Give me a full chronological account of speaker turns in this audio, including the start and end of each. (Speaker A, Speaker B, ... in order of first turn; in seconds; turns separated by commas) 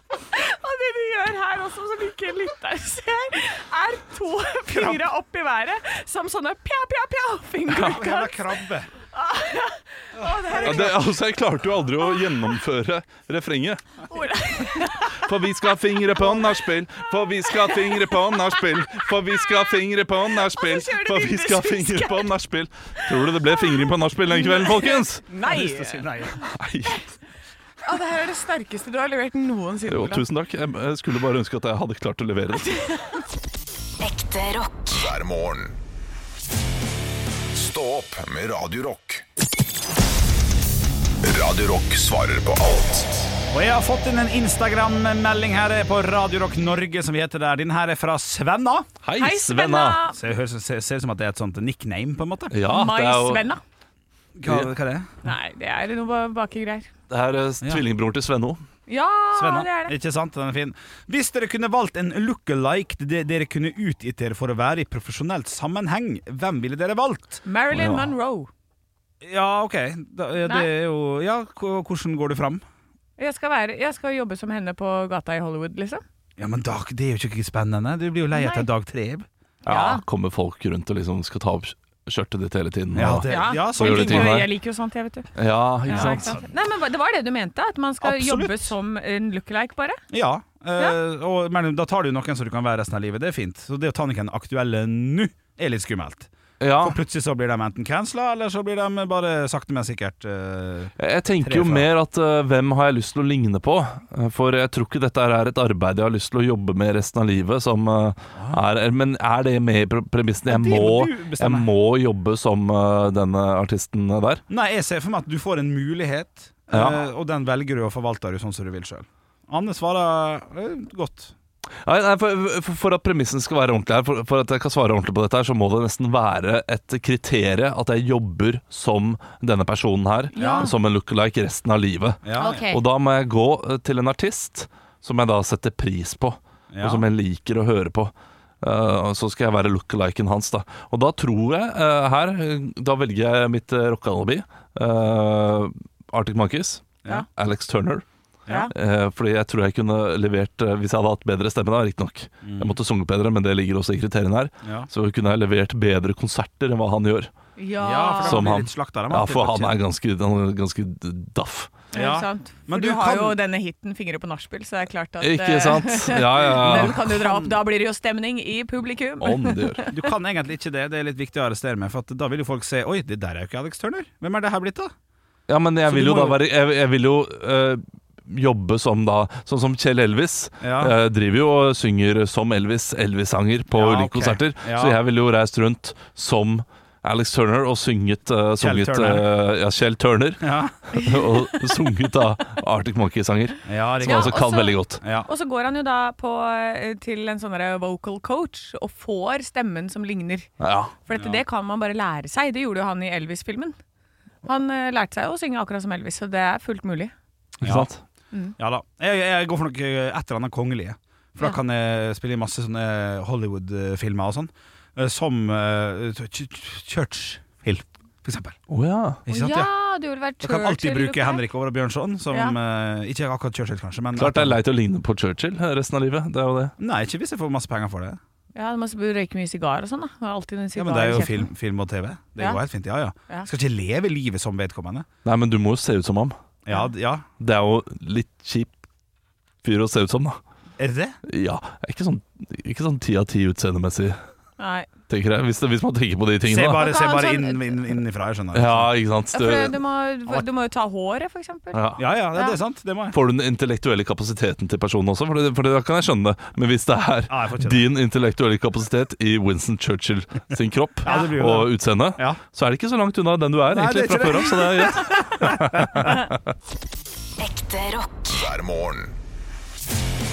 Speaker A: 0.3-8.4, Speaker B: 4.7-5.0, Speaker B: 7.7-8.9, Speaker A: 9.1-11.0, Speaker B: 10.2-11.1, Speaker C: 10.6-13.8, Speaker A: 14.1-15.3, Speaker C: 15.1-25.2, Speaker A: 16.2-16.5, Speaker A: 17.6-19.1, Speaker A: 20.4-22.3, Speaker A: 23.5-26.1, Speaker B: 25.5-26.4, Speaker C: 26.4-27.1, Speaker A: 27.8-30.2, Speaker C: 29.9-32.9, Speaker A: 32.7-33.1, Speaker D: 34.0-35.0, Speaker E: 34.9-35.8, Speaker E: 37.5-39.2, Speaker E: 41.2-43.3, Speaker B: 43.5-48.9, Speaker C: 49.0-50.0, Speaker A: 49.2-50.2, Speaker B: 50.1-52.5, Speaker C: 52.5-53.5, Speaker A: 52.7-53.6, Speaker B: 54.4-55.1, Speaker C: 54.5-54.7, Speaker A: 55.2-56.9, Speaker C: 57.1-58.6, Speaker A: 58.9-60.0, Speaker B: 59.3-68.0, Speaker A: 67.5-68.5, Speaker B: 69.2-72.6, Speaker A: 73.2-76.0, Speaker B: 76.4-79.3, Speaker A: 78.3-78.7, Speaker A: 79.7-80.0, Speaker C: 79.7-84.5, Speaker B: 82.9-84.4, Speaker A: 83.3-85.3, Speaker C: 85.4-86.4, Speaker A: 85.9-90.0, Speaker B: 85.9-86.4, Speaker B: 88.0-88.7, Speaker B: 90.1-101.9, Speaker C: 96.6-97.0, Speaker C: 101.0-114.4, Speaker B: 108.3-108.6, Speaker B: 110.5-111.7, Speaker B: 114.5-121.3, Speaker C: 116.7-117.0, Speaker C: 121.8-148.1, Speaker A: 130.3-130.7, Speaker B: 130.4-130.7, Speaker B: 132.2-132.6, Speaker A: 132.4-132.8, Speaker B: 136.7-137.1, Speaker C: 148.7-157.3, Speaker B: 152.4-152.8, Speaker B: 154.6-154.9, Speaker A: 157.6-158.5, Speaker B: 157.8-159.8, Speaker C: 158.2-161.7, Speaker A: 161.9-169.9, Speaker B: 161.9-163.4, Speaker C: 165.2-167.0, Speaker B: 166.6-167.5, Speaker C: 169.2-169.8, Speaker B: 169.9-174.9, Speaker C: 175.5-195.0, Speaker B: 175.9-176.4, Speaker B: 180.6-180.9, Speaker B: 183.7-185.0, Speaker B: 188.6-189.2, Speaker B: 190.4-190.7, Speaker A: 191.0-191.5, Speaker B: 193.7-194.4, Speaker A: 194.0-200.5, Speaker B: 195.0-195.3, Speaker C: 200.6-200.9, Speaker A: 201.1-203.8, Speaker B: 201.1-201.4, Speaker A: 204.4-207.1, Speaker B: 207.6-207.9, Speaker C: 207.6-208.0, Speaker B: 208.6-218.6, Speaker C: 218.7-219.2, Speaker B: 219.2-219.7, Speaker A: 219.3-221.4, Speaker B: 220.4-224.6, Speaker C: 224.2-226.7, Speaker B: 226.8-228.2, Speaker A: 228.6-231.5, Speaker B: 230.8-235.1, Speaker C: 235.2-236.3, Speaker B: 236.7-237.3, Speaker C: 237.4-238.8, Speaker C: 239.6-240.4, Speaker B: 240.8-241.2, Speaker C: 241.3-244.2, Speaker A: 244.6-244.9, Speaker C: 245.1-246.9, Speaker B: 246.5-248.9, Speaker A: 246.8-247.8, Speaker C: 248.5-249.8, Speaker A: 249.3-251.8, Speaker C: 251.7-252.0, Speaker B: 252.0-253.2, Speaker C: 253.1-266.4, Speaker B: 257.3-257.9, Speaker B: 261.0-262.4, Speaker B: 263.7-266.1, Speaker D: 267.4-268.5, Speaker E: 268.3-269.1